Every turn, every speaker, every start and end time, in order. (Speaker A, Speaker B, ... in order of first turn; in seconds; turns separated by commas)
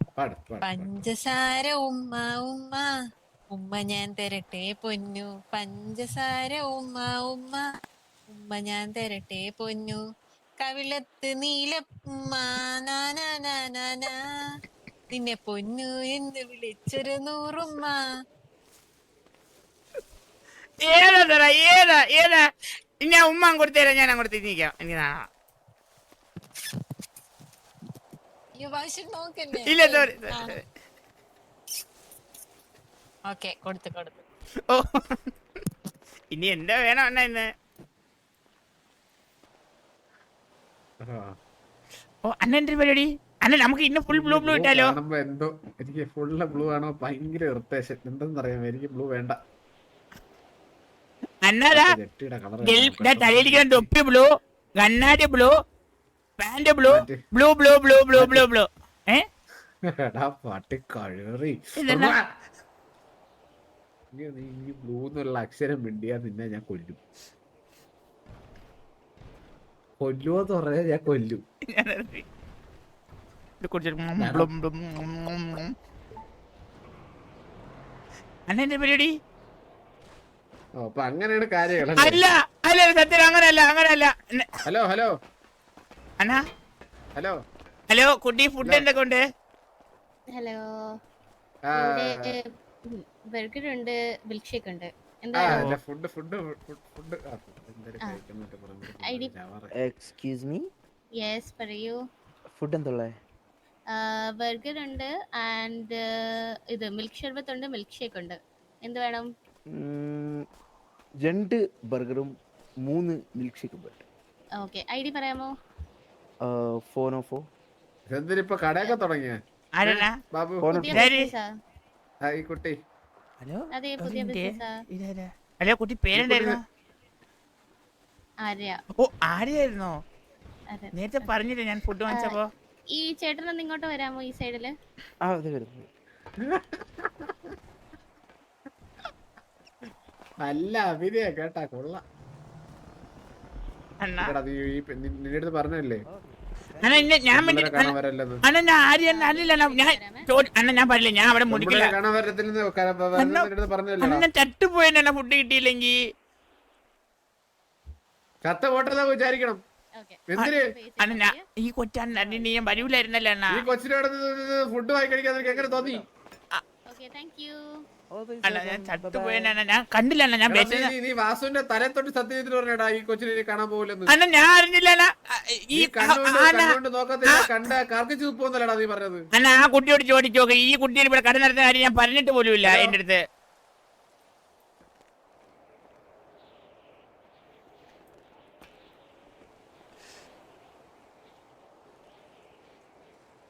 Speaker A: 0.1-0.9, Speaker B: 0.6-2.9, Speaker B: 3.5-7.6, Speaker B: 8.3-10.0, Speaker B: 10.6-14.1, Speaker B: 15.1-18.0, Speaker C: 20.8-22.4, Speaker C: 23.0-25.2, Speaker B: 28.6-30.6, Speaker C: 29.6-30.6, Speaker B: 33.3-34.2, Speaker C: 34.7-35.3, Speaker C: 36.3-37.5, Speaker A: 41.0-41.3, Speaker C: 42.2-44.9, Speaker A: 44.1-49.3, Speaker C: 51.4-51.9, Speaker A: 51.7-53.9, Speaker C: 52.6-54.3, Speaker C: 54.8-55.5, Speaker C: 56.4-59.2, Speaker A: 56.9-57.2, Speaker A: 58.1-58.5, Speaker A: 60.1-62.2, Speaker C: 61.8-62.1, Speaker A: 64.1-67.0, Speaker A: 70.0-71.4, Speaker C: 71.7-72.2, Speaker C: 73.6-75.7, Speaker A: 74.2-74.5, Speaker C: 78.5-79.1, Speaker A: 80.8-82.2, Speaker C: 82.0-84.5, Speaker A: 84.7-85.1, Speaker C: 87.9-89.2, Speaker D: 90.3-90.6, Speaker A: 91.7-92.3, Speaker D: 91.7-95.7, Speaker A: 95.3-99.7, Speaker C: 95.5-95.8, Speaker D: 99.0-99.3, Speaker E: 99.7-100.7, Speaker D: 101.2-102.0, Speaker E: 102.5-103.1, Speaker D: 103.9-106.0, Speaker D: 106.7-109.3, Speaker E: 109.7-110.4, Speaker E: 111.2-114.0, Speaker D: 114.6-115.5, Speaker E: 116.4-117.4, Speaker A: 118.1-120.8, Speaker C: 119.8-120.1, Speaker E: 120.6-121.0, Speaker D: 120.7-121.5, Speaker C: 120.9-121.3, Speaker A: 122.2-122.7, Speaker C: 123.4-126.6, Speaker D: 123.7-124.7, Speaker A: 126.2-126.6, Speaker D: 128.4-128.8, Speaker C: 129.0-129.9, Speaker D: 130.7-131.3, Speaker C: 130.9-132.5, Speaker D: 132.1-132.4, Speaker D: 132.9-134.7, Speaker E: 135.2-135.9, Speaker A: 136.4-137.3, Speaker A: 140.4-142.0, Speaker C: 144.0-144.3, Speaker A: 144.2-146.0, Speaker E: 146.1-147.1, Speaker C: 146.8-147.9, Speaker A: 147.3-148.4, Speaker C: 148.4-151.9, Speaker D: 149.1-150.2, Speaker A: 151.5-154.2, Speaker C: 153.2-153.5, Speaker C: 154.0-155.9, Speaker A: 158.4-159.6, Speaker D: 160.0-161.4, Speaker A: 160.3-160.6, Speaker C: 160.4-163.7, Speaker A: 163.5-166.0, Speaker E: 165.6-166.0, Speaker D: 166.9-167.6, Speaker E: 168.1-169.5, Speaker C: 168.4-170.9, Speaker A: 170.5-174.1, Speaker C: 174.1-176.7, Speaker A: 175.7-179.2, Speaker C: 179.3-183.2, Speaker A: 182.6-182.9